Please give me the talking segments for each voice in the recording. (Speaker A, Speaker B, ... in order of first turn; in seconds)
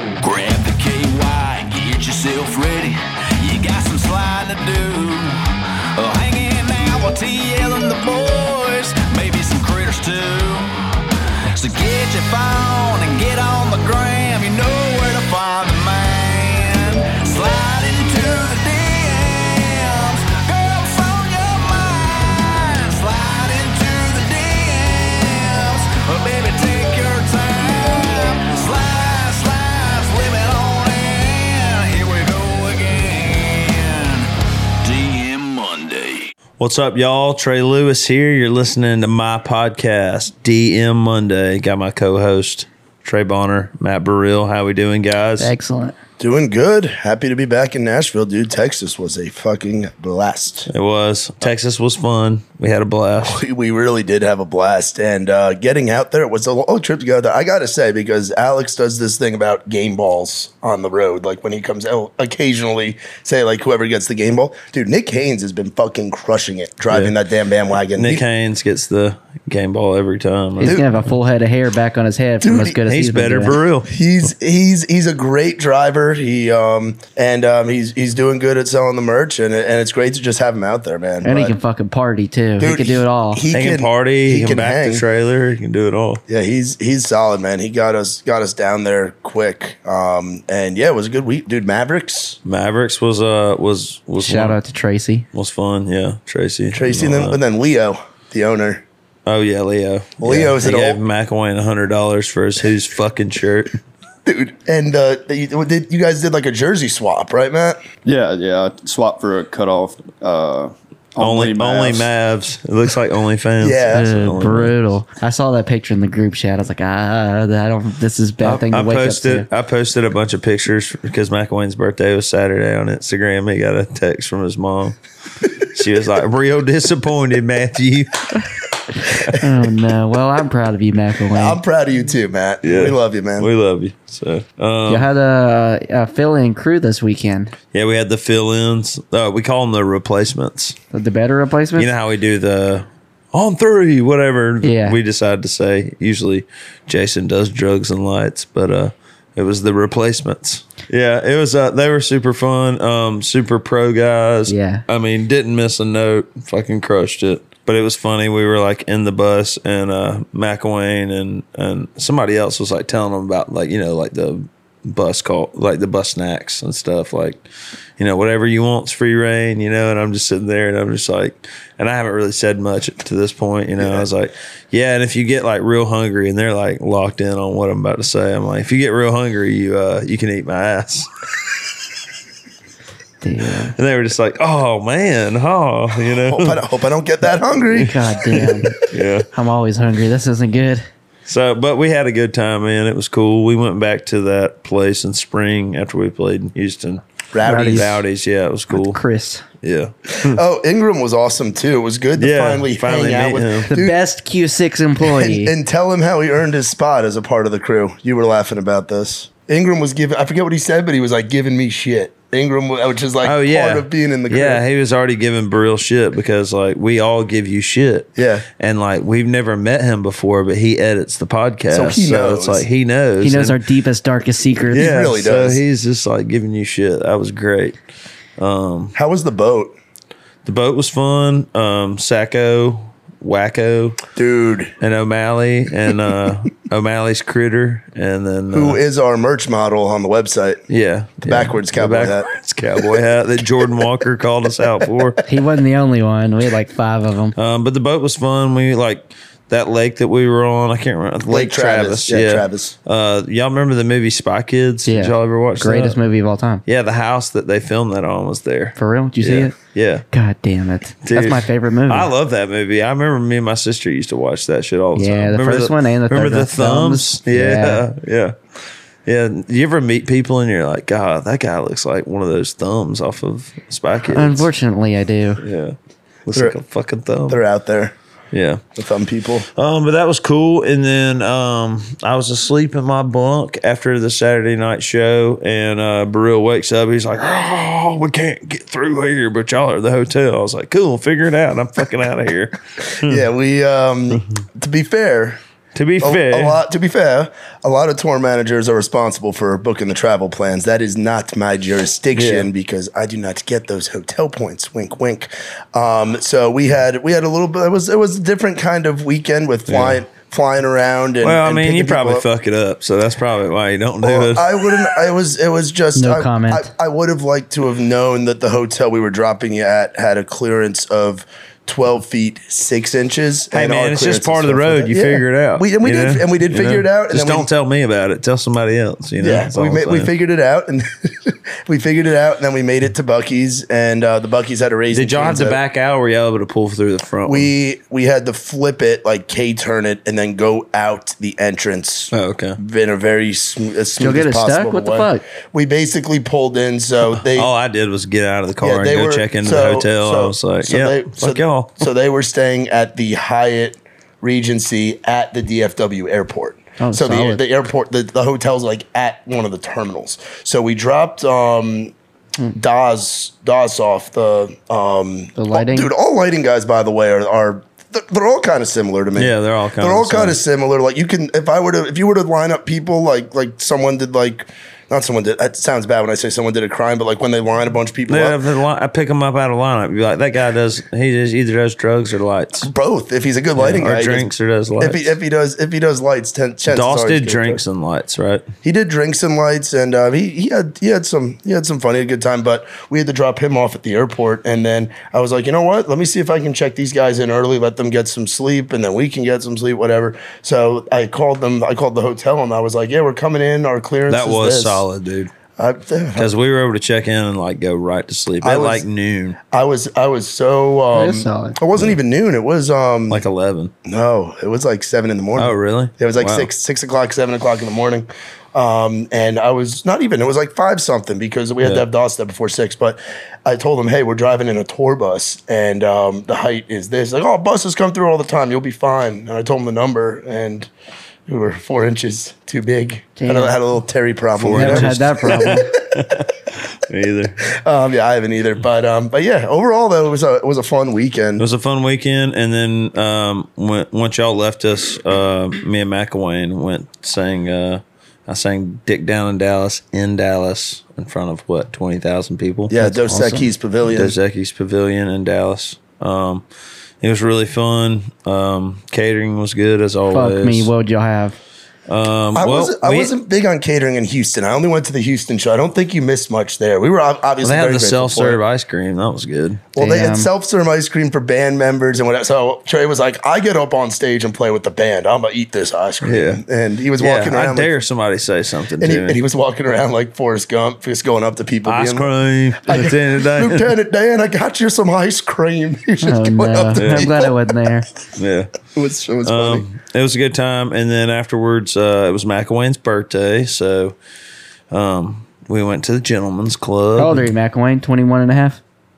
Speaker A: 0.2-5.4, 6.0-10.7, 11.5-34.3, 34.8-36.3
Speaker B: 36.6-45.5, 50.7-53.4, 66.9-67.1, 67.9-70.8, 72.8-73.9, 83.5-86.2, 92.4-94.6, 95.3-97.4, 99.2-103.8, 111.2-114.8, 118.4-125.0, 125.7-128.4, 132.6-135.1, 137.7-140.8, 141.8-167.4, 168.0-181.1, 183.7-186.6, 188.3-189.2, 191.3-199.0, 199.6-200.4, 202.2-203.7, 213.2-223.6, 224.7-227.8, 228.4-228.9, 230.4-234.0, 234.8-238.8, 240.7-245.2, 247.3-256.0, 256.6-260.0, 261.0-268.3, 269.1-274.5, 275.4-277.4, 278.3-278.6, 279.5-293.3, 295.7-296.6, 302.1-302.5, 309.7-310.0, 311.2-314.7, 323.5-330.1, 334.9-337.5, 342.1-342.6, 347.1-351.9, 369.1-370.4, 378.1-382.7, 383.6-385.1, 386.7-388.5, 404.1-405.3, 406.1-409.4, 413.1-413.7, 415.4-416.5, 421.6-421.9, 434.4-437.4, 441.4-452.7, 453.9-456.4, 457.0-460.7, 461.9-463.1, 467.4-469.6, 476.0-476.4, 477.0-479.2, 481.6-483.7, 486.8-487.1, 488.1-488.5, 489.2-493.9, 494.7-497.2
Speaker C: 45.4-45.9, 70.6-73.5, 81.2-83.4, 94.2-95.3, 113.9-119.5, 129.3-131.6, 134.9-137.5, 140.9-141.9, 144.6-145.0, 154.5-154.8, 183.2-183.7, 187.7-190.8, 197.4-198.0, 198.7-199.4, 203.7-205.5, 223.2-224.9, 245.2-247.3, 254.8-256.6, 258.8-259.5, 260.1-262.1, 264.9-267.8, 274.1-275.4, 315.9-316.7, 344.0-345.2, 356.8-357.4, 365.4-365.9, 410.9-411.6, 433.1-433.6, 434.5-435.7, 452.8-453.5, 460.1-461.4, 469.8-470.3, 486.0-487.9, 496.9-498.6
Speaker D: 46.2-50.7, 53.2-68.2, 72.4-72.8, 73.8-81.5, 82.6-85.0, 86.3-92.4, 96.7-98.8, 100.2-101.0, 104.2-107.8, 113.6-114.1, 131.3-133.5, 173.8-174.1, 186.2-188.0, 197.3-197.9, 200.2-204.0, 205.0-214.6, 218.2-218.4, 221.7-222.6, 224.7-225.6, 228.9-229.8, 234.1-234.7, 238.5-240.6, 241.2-242.3, 251.3-252.7, 277.3-277.9, 278.8-279.5, 293.0-295.4, 296.0-312.2, 314.0-327.5, 329.2-335.6, 337.2-347.5, 348.6-361.9, 362.5-378.4, 382.6-384.3, 384.8-387.6, 388.6-404.8, 405.6-406.3, 408.4-408.8, 409.5-413.2, 413.9-430.7, 431.3-436.2, 437.6-441.4, 452.7-454.1, 462.3-468.4, 469.7-477.7, 478.8-482.1, 482.6-487.4, 488.7-489.6
Speaker E: 108.0-112.1